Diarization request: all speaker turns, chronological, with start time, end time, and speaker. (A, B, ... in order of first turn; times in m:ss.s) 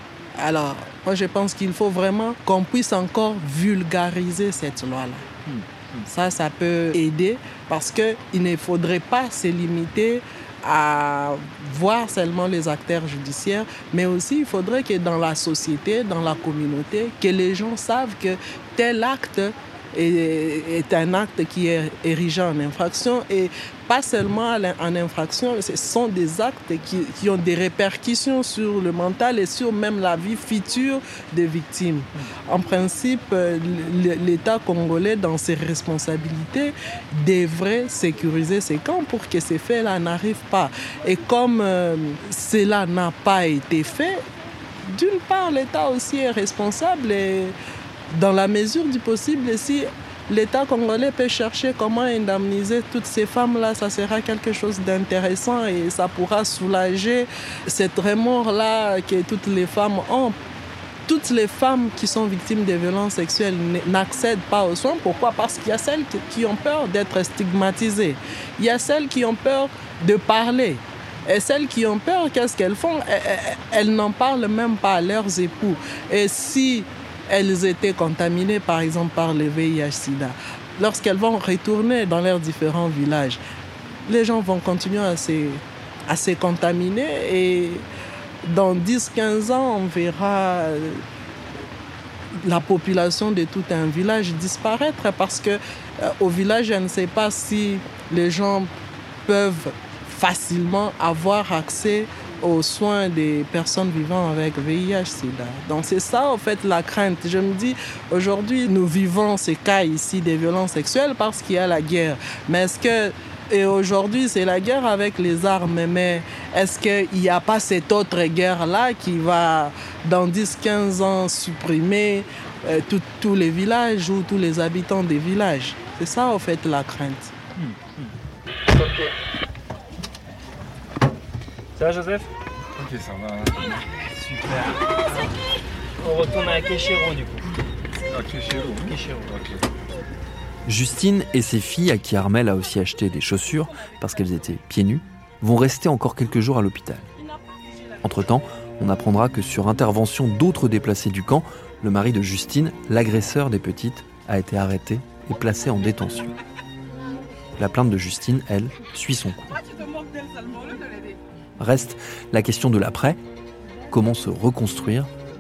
0:00.4-0:05.3 A
0:05.5-0:06.1 B
0:06.1-0:44.2 A
0:44.8-0:47.6 A
0:48.1-1:00.4 A
1:01.1-1:23.4 A
1:24.1-1:27.9 A
1:28.4-1:31.0 A
1:32.4-1:38.7 A
1:39.3-2:07.3 A
2:07.6-2:08.1 B
2:11.8-2:12.2 B
2:11.8-2:12.3 C
2:12.8-2:13.7 B
2:14.2-2:15.2 C
2:16.0-2:17.4 C
2:18.1-2:19.6 B
2:20.7-2:27.1 D
2:28.0-2:36.3 D
2:37.6-2:39.6 D
2:41.6-2:43.2 D
2:43.9-2:45.1 D